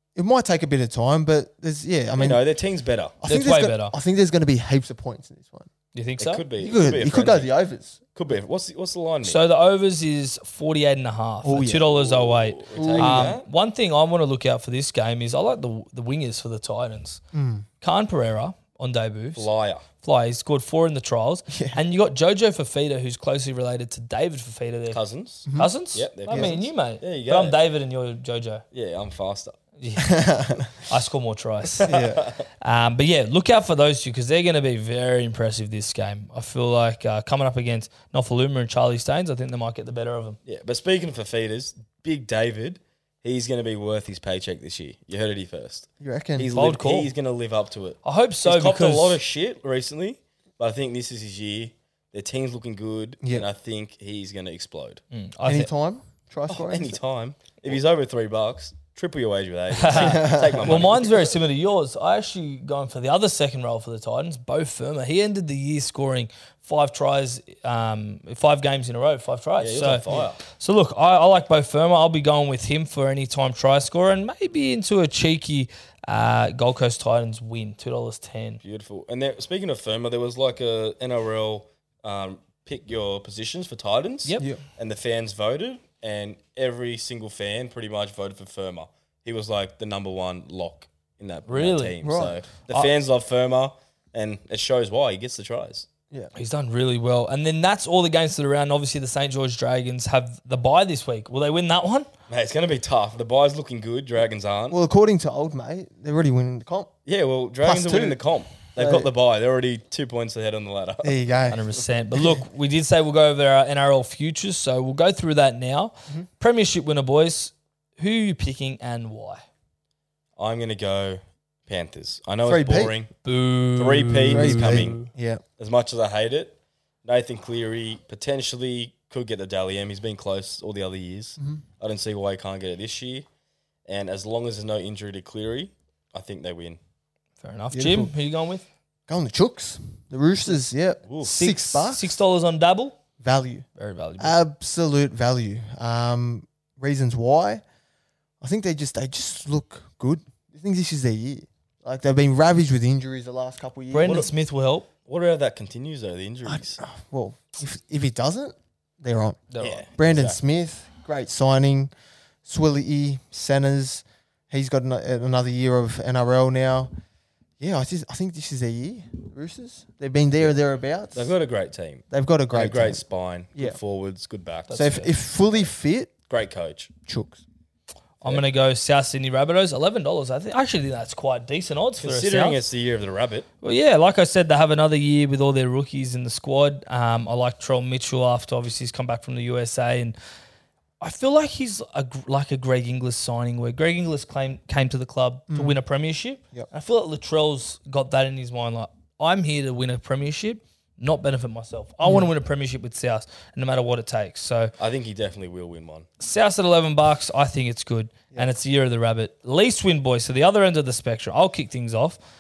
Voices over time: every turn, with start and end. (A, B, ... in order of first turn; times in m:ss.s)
0:00.2-0:02.4 A
0:02.2-0:03.2 B
0:03.2-0:05.7 A
0:03.3-0:04.0 C
0:05.9-0:06.4 C
0:06.2-0:07.5 B
0:06.6-0:08.0 A
0:08.2-0:09.4 B
0:09.2-0:17.2 C
0:11.4-0:11.9 A
0:11.9-0:13.5 B
0:12.7-0:13.4 A
0:17.3-0:17.7 A
0:17.8-0:19.5 C
0:19.4-0:19.9 B
0:20.0-0:25.0 C
0:21.5-0:21.8 A
0:24.9-0:27.6 B
0:25.6-0:28.6 C
0:26.3-0:26.6 A
0:28.7-0:29.6 B
0:29.8-0:30.2 C
0:30.0-0:30.7 A
0:30.8-0:31.9 C
0:31.8-0:32.4 B
0:31.8-0:32.3 A
0:32.6-0:40.4 C
0:40.5-0:55.0 B
0:46.0-0:46.5 A
0:46.5-0:47.1 C
0:48.0-0:49.2 C
0:55.1-0:55.7 C
0:55.5-0:57.0 A
0:56.5-1:01.2 B
0:59.7-1:18.6 C
0:59.9-1:00.9 A
1:09.6-1:10.4 B
1:18.6-1:35.9 B
1:31.5-1:32.0 C
1:32.0-1:32.4 A
1:36.4-1:42.1 C
1:42.3-1:44.8 B
1:44.7-1:46.9 A
1:47.1-1:51.2 B
1:47.6-1:48.2 A
1:48.8-1:49.1 A
1:51.0-1:52.4 A
1:51.5-1:59.4 C
2:00.4-2:03.1 B
2:02.4-2:03.0 A
2:03.2-2:05.1 C
2:03.8-2:05.0 B
2:04.3-2:05.4 A
2:05.6-2:13.3 B
2:13.9-2:16.8 B
2:17.4-2:18.6 C
2:17.7-2:18.1 A
2:19.1-2:22.2 A
2:21.1-2:21.4 B
2:21.2-2:23.0 C
2:23.2-2:23.7 A
2:23.8-2:24.4 C
2:24.2-2:27.6 A
2:28.4-2:34.2 A
2:33.9-2:34.9 C
2:34.0-2:34.3 B
2:35.1-2:36.8 B
2:36.4-2:39.4 A
2:39.5-2:39.8 C
2:39.6-2:40.4 B
2:40.0-2:41.9 A
2:42.4-2:46.9 A
2:47.6-2:51.4 A
2:51.2-2:54.7 B
2:52.1-2:53.0 A
2:54.7-2:55.1 C
2:54.7-2:56.1 A
2:56.3-2:56.9 B
2:57.1-2:57.4 A
2:58.2-3:02.6 C
3:02.0-3:03.5 B
3:03.6-3:10.2 C
3:11.0-3:24.7 C
3:15.5-3:15.8 A
3:24.8-3:26.1 B
3:26.2-3:32.2 C